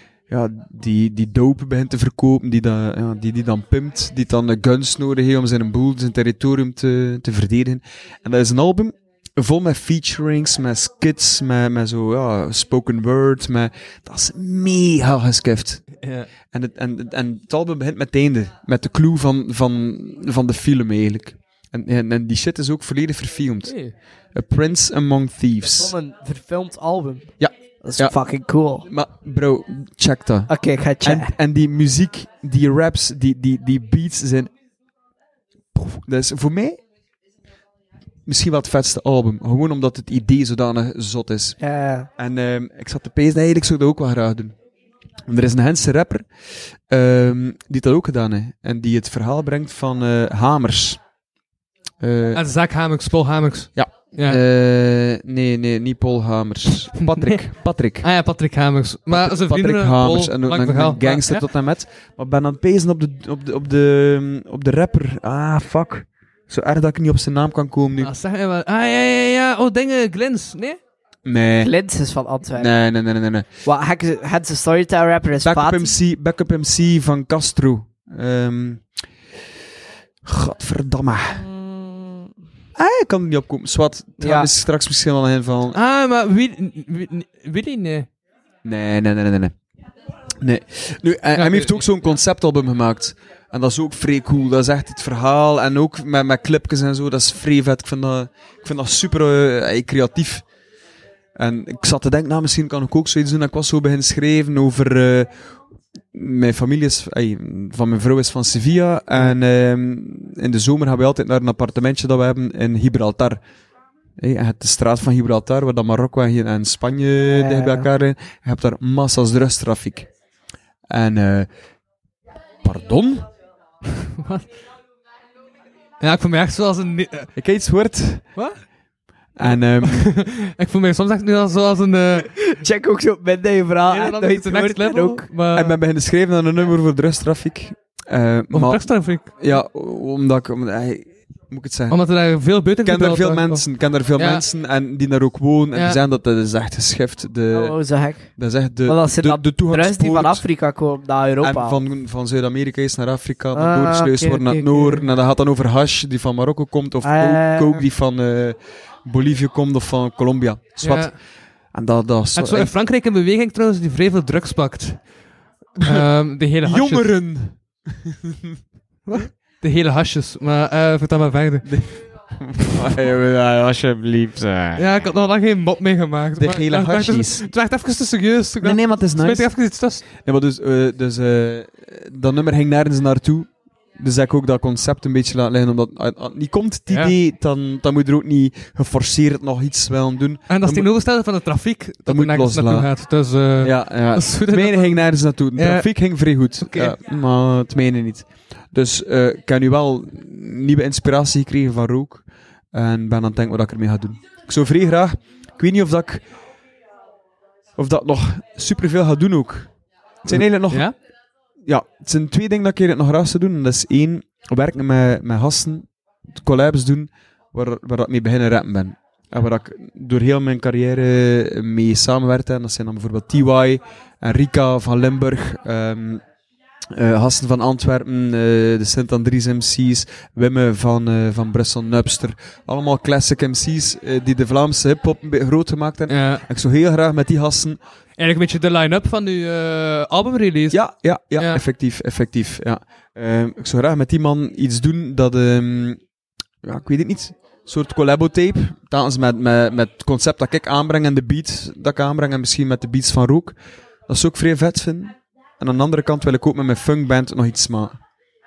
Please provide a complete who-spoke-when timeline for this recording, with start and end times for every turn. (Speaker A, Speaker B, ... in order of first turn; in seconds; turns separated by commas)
Speaker A: 0.3-25.9, Speaker B: 16.0-16.3, Speaker B: 23.7-23.9, Speaker C: 25.7-28.9, Speaker A: 27.4-28.2, Speaker A: 28.9-34.5, Speaker C: 30.5-31.3, Speaker A: 35.8-36.8, Speaker A: 38.3-41.6, Speaker C: 41.6-42.1, Speaker A: 42.2-44.5, Speaker A: 45.3-46.3, Speaker A: 46.9-51.0, Speaker A: 52.0-52.4, Speaker B: 52.3-54.4, Speaker A: 53.8-58.1, Speaker B: 57.0-57.4, Speaker B: 58.0-61.4, Speaker A: 59.1-68.1, Speaker B: 68.0-70.8, Speaker A: 71.2-71.7, Speaker C: 71.6-72.7, Speaker A: 72.5-73.5, Speaker C: 73.7-75.9, Speaker A: 75.4-78.8, Speaker A: 80.2-81.4, Speaker C: 81.3-82.3, Speaker A: 82.8-85.8, Speaker C: 84.2-84.5, Speaker B: 85.7-88.1, Speaker A: 88.6-89.5, Speaker A: 90.4-100.5, Speaker B: 91.3-91.9, Speaker A: 101.4-105.4, Speaker A: 106.1-113.4, Speaker A: 114.2-120.1, Speaker C: 117.3-117.9, Speaker A: 120.9-121.5, Speaker A: 122.6-123.3, Speaker B: 124.2-124.5, Speaker B: 126.0-127.3, Speaker A: 127.4-128.3, Speaker B: 128.4-128.7, Speaker A: 129.4-130.1, Speaker B: 129.8-132.4, Speaker C: 132.4-135.3, Speaker B: 133.9-135.8, Speaker A: 135.5-142.0, Speaker B: 138.5-139.4, Speaker B: 141.9-143.7, Speaker A: 142.8-150.4, Speaker B: 144.2-144.4, Speaker C: 147.5-148.3, Speaker C: 148.8-151.8, Speaker A: 151.4-162.7, Speaker C: 153.6-155.0, Speaker C: 157.0-157.8, Speaker B: 160.8-161.2, Speaker B: 162.4-165.1, Speaker A: 165.8-166.1, Speaker B: 165.8-167.1, Speaker A: 166.6-168.6, Speaker B: 169.1-172.0, Speaker A: 171.7-174.9, Speaker B: 174.8-180.1, Speaker A: 176.4-177.5, Speaker A: 178.6-179.6, Speaker A: 180.2-190.9, Speaker B: 186.9-187.1, Speaker B: 190.5-195.0, Speaker A: 192.1-192.9, Speaker A: 193.6-206.3, Speaker B: 195.6-195.9, Speaker B: 196.7-196.9, Speaker A: 207.8-209.7, Speaker A: 210.2-210.9, Speaker B: 210.7-210.9, Speaker A: 211.6-226.2, Speaker A: 226.9-237.8, Speaker B: 236.1-236.5, Speaker B: 238.2-240.8, Speaker A: 240.7-246.0, Speaker B: 241.4-241.6, Speaker A: 246.6-258.0